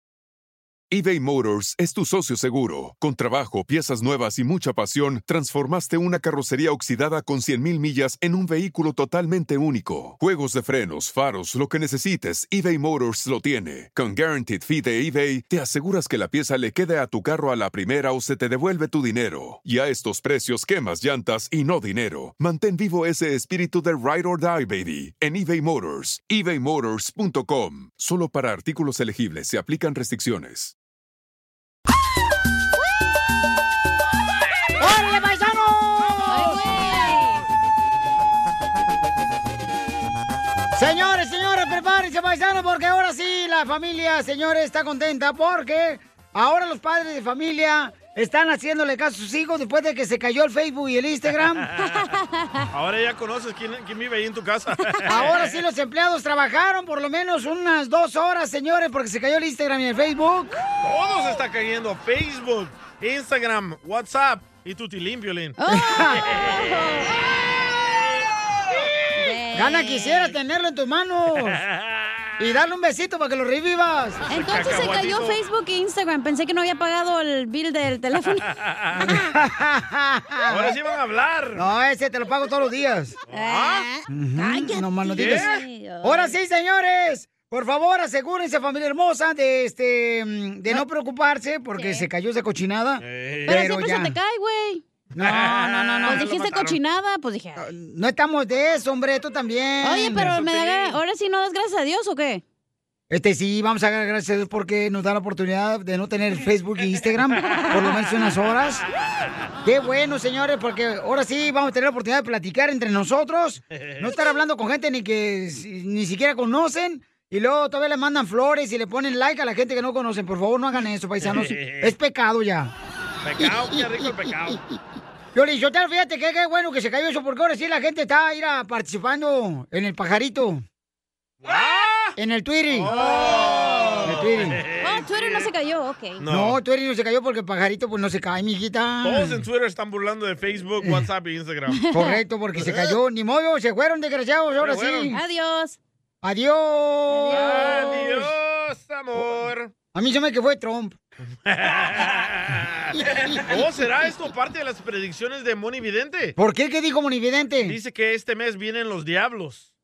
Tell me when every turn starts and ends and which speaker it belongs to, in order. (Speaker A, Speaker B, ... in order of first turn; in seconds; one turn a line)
Speaker A: 0.9-30.7
Speaker B: 34.8-36.9
Speaker C: 36.2-37.4
Speaker B: 40.8-51.7
Speaker C: 51.9-52.6
Speaker D: 52.7-55.4
Speaker B: 55.0-60.6
Speaker D: 60.8-65.6
Speaker C: 65.6-67.1
Speaker B: 65.7-66.2
Speaker D: 66.2-66.6
Speaker C: 69.2-70.3
Speaker B: 69.5-71.6
Speaker D: 71.5-72.3
Speaker B: 72.4-74.2
Speaker C: 74.3-78.4
Speaker D: 74.3-75.4
Speaker D: 78.7-79.0
Speaker B: 79.1-80.7
Speaker D: 80.5-81.6
Speaker B: 81.5-83.2
Speaker D: 83.3-83.9
Speaker C: 83.3-86.3
Speaker B: 84.1-94.2
Speaker D: 85.2-85.5
Speaker C: 91.7-92.1
Speaker D: 93.0-93.5
Speaker C: 93.5-94.8
Speaker B: 95.2-95.5
Speaker D: 95.2-96.8
Speaker C: 95.3-97.7
Speaker B: 97.5-100.4
Speaker C: 99.8-102.4
Speaker D: 100.1-101.0
Speaker B: 103.1-108.8
Speaker C: 107.4-108.0
Speaker B: 109.6-122.7
Speaker D: 121.2-121.9
Speaker D: 123.2-124.6
Speaker B: 125.3-130.6
Speaker D: 131.4-132.1
Speaker B: 132.2-132.9
Speaker D: 132.7-135.4
Speaker C: 132.9-134.0
Speaker B: 134.0-134.6
Speaker C: 134.8-136.2
Speaker D: 136.2-136.6
Speaker B: 136.3-139.4
Speaker D: 139.0-141.8
Speaker C: 141.7-142.2
Speaker B: 141.9-145.2
Speaker D: 144.6-145.1
Speaker C: 145.1-145.8
Speaker B: 146.2-148.2
Speaker C: 147.1-148.2
Speaker D: 147.3-149.7
Speaker B: 149.9-151.0
Speaker D: 151.4-156.3
Speaker B: 156.4-157.8
Speaker D: 157.6-159.7